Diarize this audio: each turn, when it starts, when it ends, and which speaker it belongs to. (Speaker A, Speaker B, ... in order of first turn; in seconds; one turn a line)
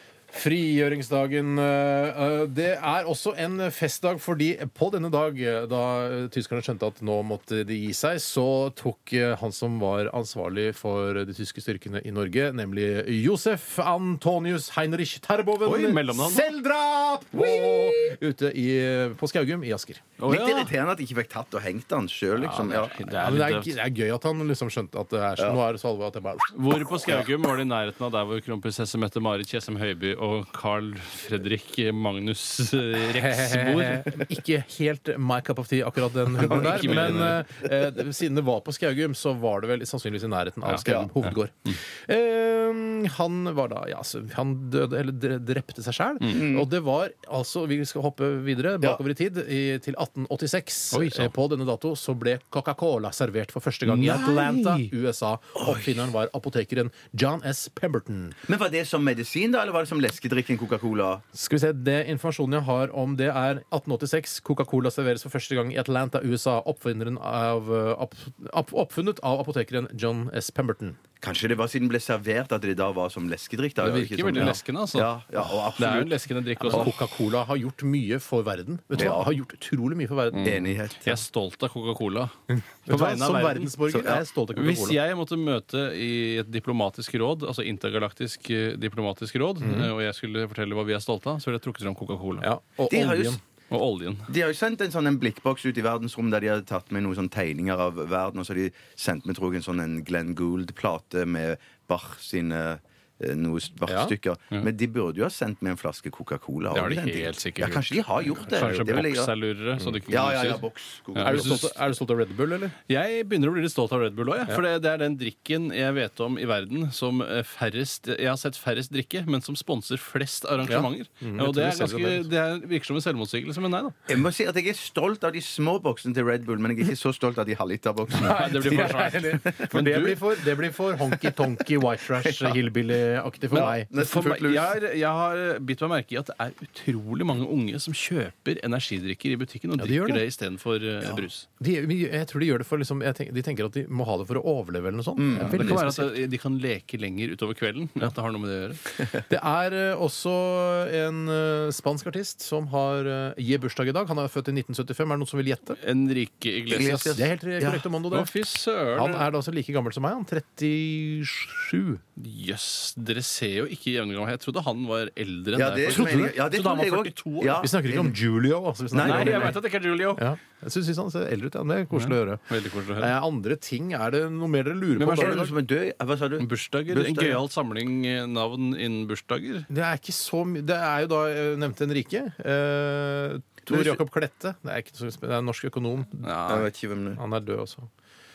Speaker A: 0.3-20.0
Speaker B: 15.6-16.5
Speaker B: 20.2-20.7
Speaker C: 20.3-23.1
Speaker A: 22.4-26.6
Speaker B: 22.4-23.7
Speaker B: 26.5-34.3
Speaker A: 33.0-58.4
Speaker B: 36.3-37.5
Speaker C: 36.4-37.4
Speaker B: 40.6-41.4
Speaker C: 40.8-41.1
Speaker C: 46.2-46.7
Speaker B: 50.9-51.3
Speaker B: 53.9-54.9
Speaker C: 55.6-56.0
Speaker C: 58.5-61.2
Speaker A: 61.3-71.0
Speaker C: 71.2-76.2
Speaker B: 73.8-75.2
Speaker A: 73.9-74.6
Speaker B: 75.8-76.9
Speaker A: 76.6-80.6
Speaker C: 79.0-79.3
Speaker B: 80.3-82.3
Speaker C: 80.4-81.2
Speaker A: 82.5-85.0
Speaker B: 82.9-92.5
Speaker C: 83.9-84.2
Speaker A: 89.6-89.9
Speaker A: 92.4-93.4
Speaker C: 92.9-93.4
Speaker B: 93.7-94.3
Speaker C: 94.3-109.3
Speaker A: 103.9-104.1
Speaker B: 106.7-107.9
Speaker A: 107.2-107.8
Speaker B: 108.4-110.6
Speaker C: 110.1-111.7
Speaker B: 111.2-111.8
Speaker A: 111.2-112.8
Speaker B: 112.9-124.0
Speaker A: 120.7-122.3
Speaker C: 124.1-129.7
Speaker A: 128.2-133.9
Speaker B: 128.2-130.3
Speaker C: 131.0-132.6
Speaker C: 133.5-134.8
Speaker B: 133.5-141.5
Speaker A: 139.8-140.2
Speaker C: 141.0-141.3
Speaker A: 141.6-146.1
Speaker C: 145.2-145.9
Speaker B: 145.5-148.8
Speaker A: 149.3-155.8
Speaker B: 155.8-159.3
Speaker C: 156.7-157.8
Speaker A: 157.1-158.3
Speaker A: 158.9-162.0
Speaker B: 162.2-167.7
Speaker C: 165.5-168.2
Speaker A: 166.0-166.3
Speaker A: 167.6-169.6
Speaker C: 168.9-169.6
Speaker B: 169.0-170.2
Speaker A: 170.1-175.5
Speaker B: 171.9-173.1
Speaker B: 175.0-175.5
Speaker C: 175.1-177.4
Speaker B: 176.4-179.7
Speaker A: 179.7-186.3
Speaker C: 183.7-184.0
Speaker B: 186.2-186.7
Speaker C: 186.5-187.2
Speaker A: 187.2-187.9